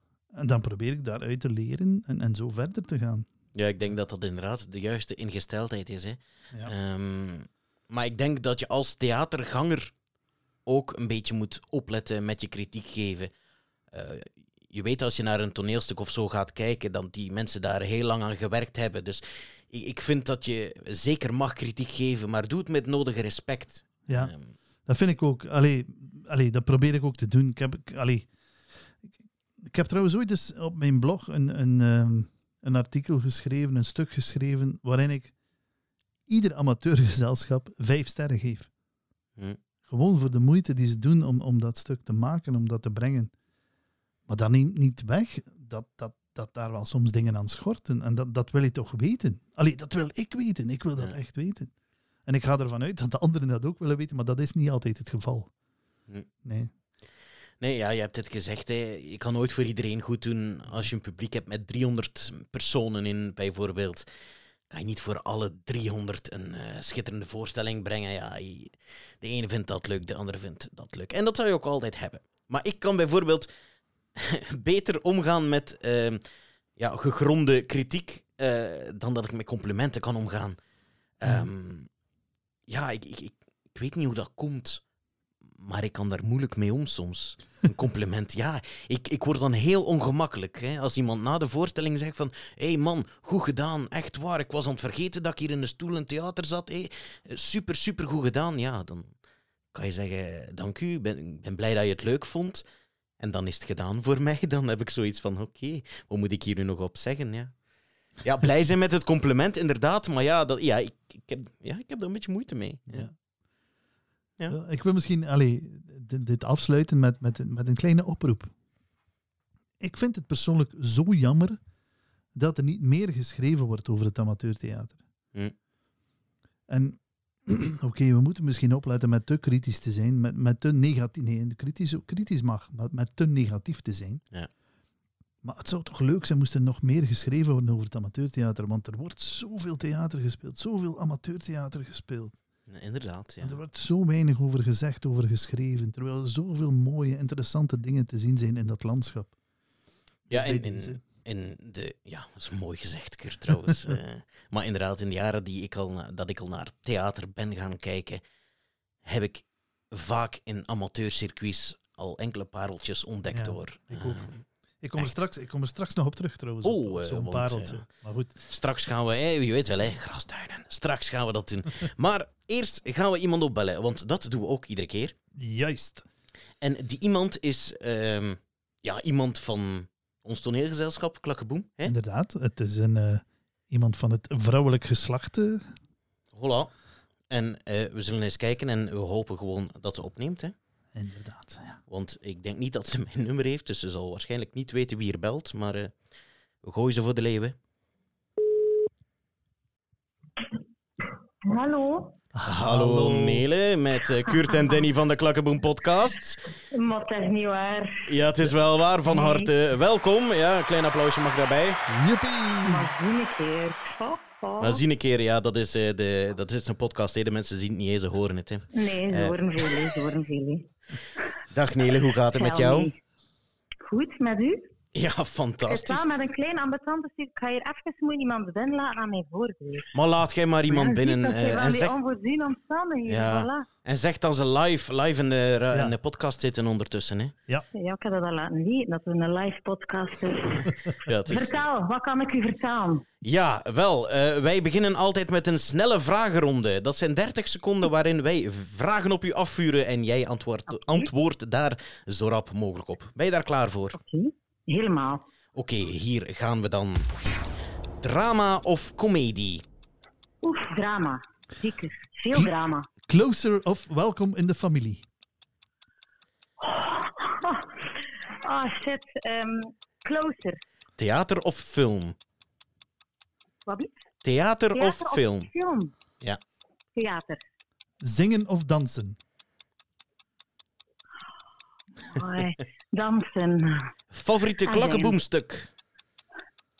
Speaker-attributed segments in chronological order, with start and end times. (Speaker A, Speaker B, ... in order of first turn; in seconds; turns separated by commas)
Speaker A: 0.3-3.3, Speaker B: 3.5-9.9, Speaker B: 10.7-13.3, Speaker B: 13.9-24.5, Speaker A: 24.1-24.3, Speaker A: 24.9-28.3, Speaker A: 29.6-35.3, Speaker A: 36.3-38.7, Speaker A: 39.9-43.3, Speaker A: 44.3-51.7, Speaker A: 52.2-55.5, Speaker A: 56.4-56.7, Speaker B: 57.6-64.1, Speaker B: 64.7-73.5, Speaker B: 74.2-76.2, Speaker B: 76.8-80.6, Speaker B: 81.2-81.9, Speaker B: 82.7-84.8, Speaker B: 85.6-99.1, Speaker B: 99.7-102.6, Speaker B: 103.2-107.6, Speaker B: 108.2-113.1, Speaker A: 112.9-113.1, Speaker A: 114.5-118.5, Speaker A: 119.8-121.6, Speaker A: 122.3-125.0, Speaker A: 126.7-134.2, Speaker A: 135.4-142.4, Speaker B: 142.7-143.6, Speaker A: 143.4-149.3, Speaker A: 150.3-151.0, Speaker B: 150.3-158.2, Speaker A: 153.5-154.0, Speaker B: 159.0-164.4, Speaker A: 163.3-168.4, Speaker B: 166.6-167.8, Speaker B: 168.5-175.1, Speaker A: 175.3-176.0, Speaker B: 176.6-181.9, Speaker A: 181.8-185.7, Speaker B: 186.3-186.7, Speaker B: 187.3-190.5, Speaker A: 190.9-191.8, Speaker B: 191.9-195.9, Speaker B: 196.6-197.6, Speaker C: 201.4-202.2, Speaker A: 202.3-203.4, Speaker B: 202.4-206.4, Speaker C: 204.3-204.7, Speaker C: 206.7-208.1, Speaker B: 208.1-211.8, Speaker C: 209.1-209.5, Speaker A: 211.9-212.9, Speaker C: 212.6-214.8, Speaker B: 214.6-219.9, Speaker C: 218.7-221.3, Speaker B: 221.5-222.9, Speaker C: 222.3-223.0, Speaker C: 223.8-224.7, Speaker B: 224.9-226.1, Speaker C: 225.7-229.9, Speaker B: 229.9-231.9, Speaker C: 230.7-233.7, Speaker B: 233.1-237.3, Speaker A: 235.7-235.9, Speaker C: 237.7-243.0, Speaker B: 241.0-241.6, Speaker B: 243.2-254.0, Speaker C: 250.7-251.1, Speaker C: 253.9-255.2, Speaker B: 255.5-257.1, Speaker B: 258.0-259.6, Speaker C: 260.4-262.9, Speaker A: 263.1-265.0, Speaker C: 266.6-270.6, Speaker B: 271.0-272.1, Speaker C: 273.6-274.1, Speaker B: 274.2-275.5, Speaker C: 274.8-275.9, Speaker C: 276.9-277.4, Speaker A: 278.0-279.2, Speaker C: 282.1-283.9, Speaker B: 284.1-285.7, Speaker C: 284.6-285.2